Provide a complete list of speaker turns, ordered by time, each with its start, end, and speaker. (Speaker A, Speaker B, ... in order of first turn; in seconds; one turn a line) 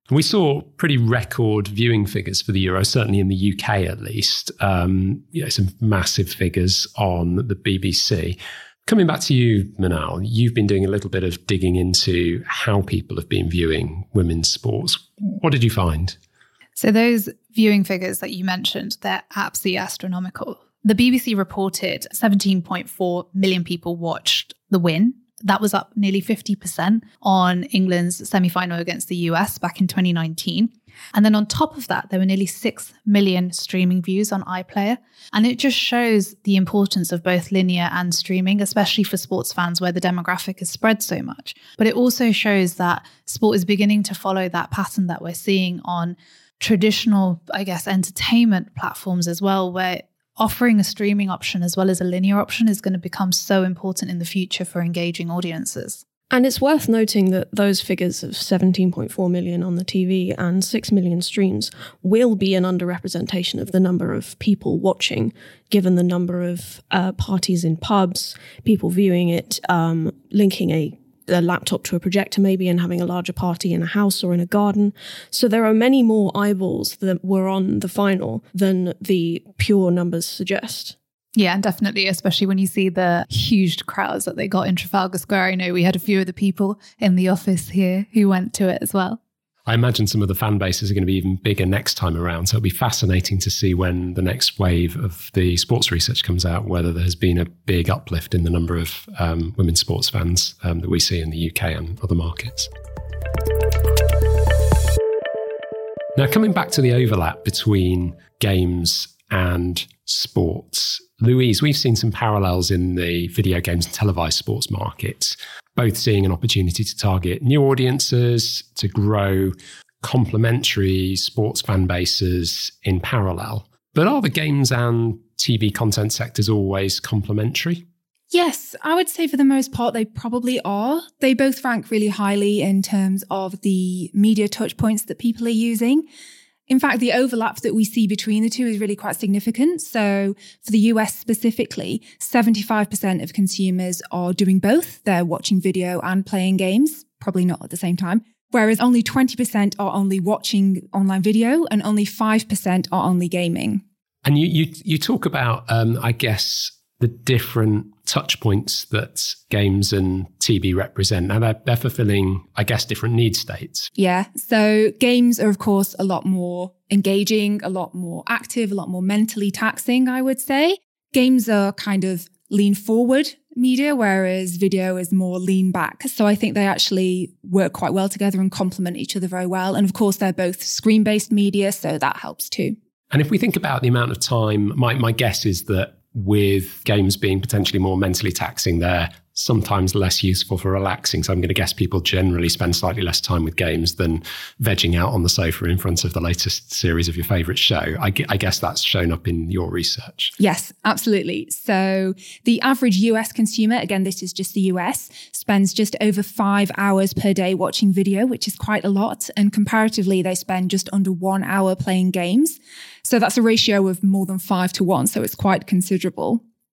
Speaker A: 0.1-16.2
Speaker B: 16.8-56.0
Speaker C: 56.3-81.0
Speaker B: 81.4-89.2
Speaker A: 89.7-102.7
Speaker A: 106.2-127.8
Speaker D: 128.3-136.1
Speaker D: 136.7-153.8
Speaker A: 154.2-163.9
Speaker D: 164.0-182.8
Speaker A: 183.1-200.3
Speaker D: 200.4-216.4